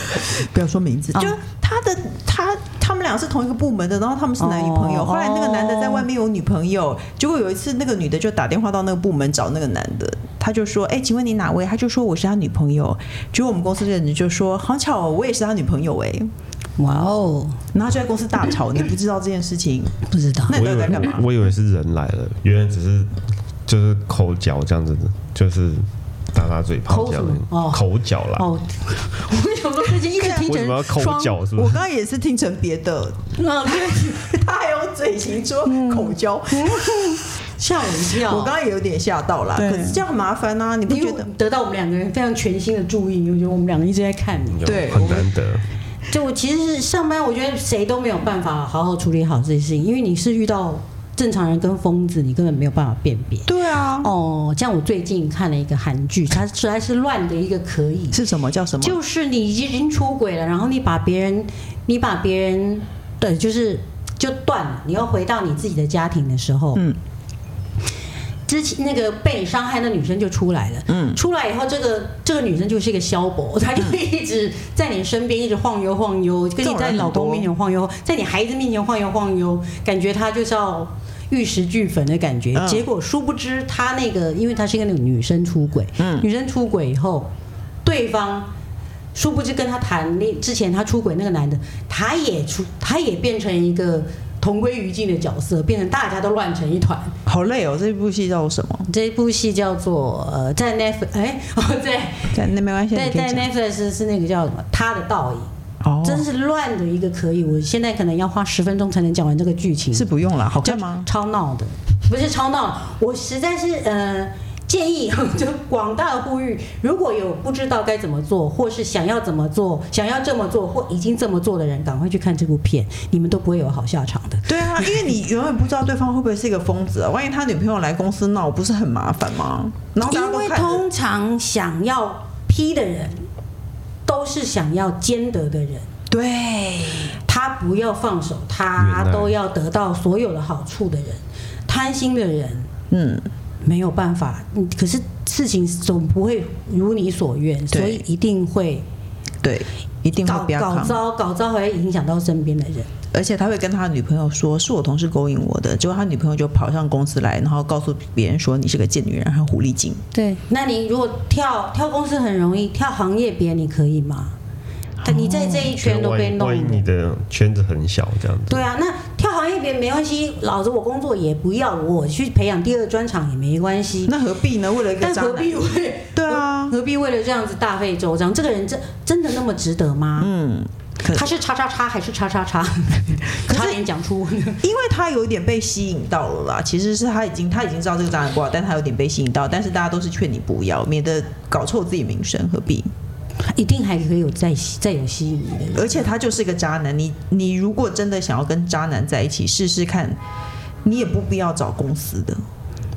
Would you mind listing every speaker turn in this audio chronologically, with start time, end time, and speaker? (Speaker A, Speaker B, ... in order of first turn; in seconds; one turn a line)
Speaker A: 0.1-16.3
Speaker B: 4.4-6.0
Speaker B: 16.8-17.6
Speaker A: 17.7-21.2
Speaker B: 20.1-20.6
Speaker C: 20.5-28.5
Speaker B: 26.9-27.8
Speaker B: 28.3-31.4
Speaker A: 30.1-30.5
Speaker C: 30.4-31.8
Speaker A: 31.5-37.2
Speaker B: 33.4-34.3
Speaker B: 35.6-38.5
Speaker A: 38.1-41.3
Speaker B: 39.5-40.0
Speaker B: 40.9-45.2
Speaker C: 44.5-45.6
Speaker A: 44.6-45.2
Speaker B: 46.1-58.2
Speaker A: 53.5-54.1
Speaker A: 58.1-59.0
Speaker B: 58.8-66.8
Speaker B: 68.5-87.3
Speaker A: 70.9-71.2
Speaker A: 76.6-77.5
Speaker A: 82.5-82.8
Speaker A: 86.0-86.3
Speaker B: 87.8-88.5
Speaker B: 89.1-97.1
Speaker A: 97.2-98.9
Speaker B: 98.9-102.4
Speaker A: 102.3-103.5
Speaker B: 102.9-105.5
Speaker A: 105.8-106.2
Speaker B: 106.0-110.1
Speaker A: 109.9-111.1
Speaker B: 110.6-125.1
Speaker A: 124.5-130.8
Speaker B: 130.0-133.3
Speaker B: 134.1-135.9
Speaker A: 136.1-137.2
Speaker B: 137.2-142.7
Speaker C: 138.8-139.3
Speaker A: 142.9-143.3
Speaker B: 143.6-148.8
Speaker A: 147.7-148.0
Speaker A: 149.4-151.0
Speaker B: 150.2-152.9
Speaker A: 153.1-160.0
Speaker B: 160.1-164.3
Speaker A: 165.0-165.7
Speaker B: 165.1-166.8
Speaker C: 165.6-168.7
Speaker B: 168.5-174.1
Speaker A: 174.1-176.7
Speaker B: 175.0-180.3
Speaker A: 180.2-181.3
Speaker B: 181.1-184.6
Speaker A: 183.5-183.8
Speaker A: 184.6-192.9
Speaker B: 193.5-196.1
Speaker A: 195.7-200.2
Speaker A: 200.8-202.4